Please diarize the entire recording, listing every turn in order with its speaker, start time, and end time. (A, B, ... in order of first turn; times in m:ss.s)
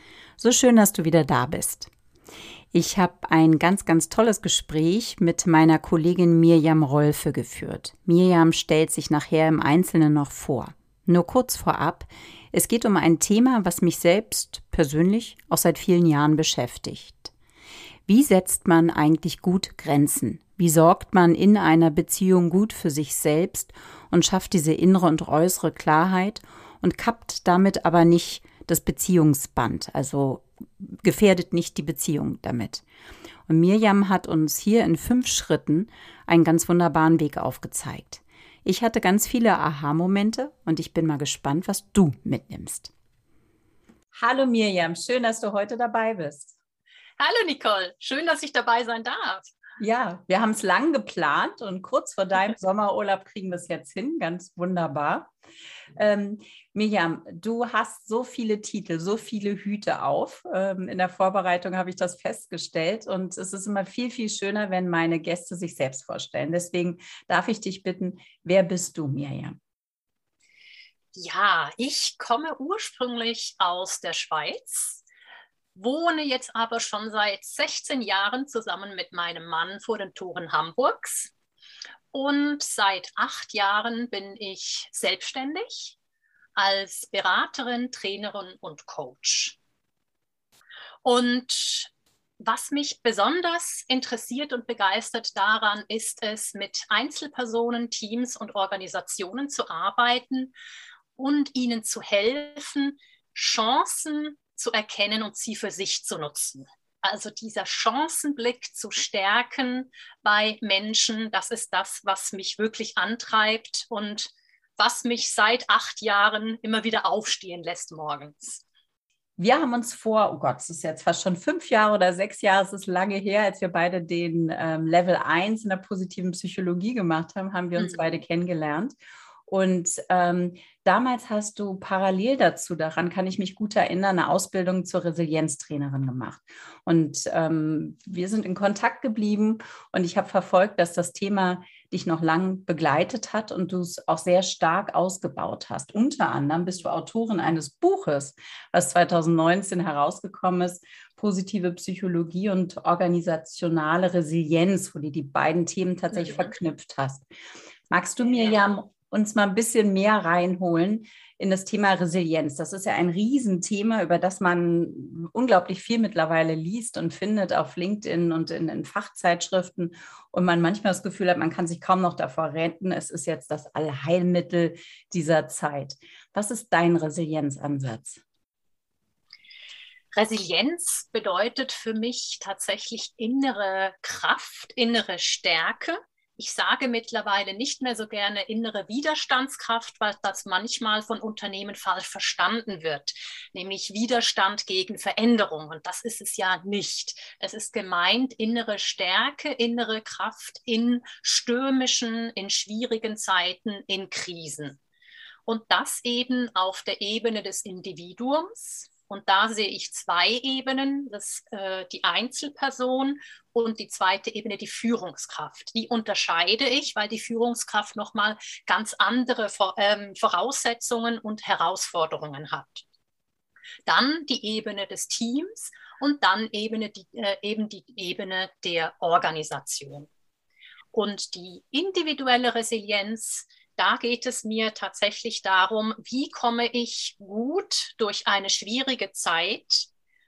0:00.4-0:01.9 A
0:02.7-0:17.3 A
0:18.1-0:32.8 A
0:33.5-0:42.9 A
0:44.1-0:46.5 A
0:47.2-0:49.5 B
0:49.8-0:55.3 A
0:56.0-1:09.6 A
1:11.2-1:15.0 B
1:15.8-1:21.3 B
1:22.1-1:26.0 B
1:26.6-1:29.6 B
1:31.0-1:40.5 B
1:41.2-1:58.6 B
1:59.4-2:09.0 A
2:07.8-2:08.1 B
2:09.5-2:37.3 A
2:36.1-2:36.5 B
2:37.9-2:58.2 A
3:00.2-3:24.8 B
3:25.5-3:42.8 B
3:43.9-3:50.1 B
3:50.9-3:59.9 B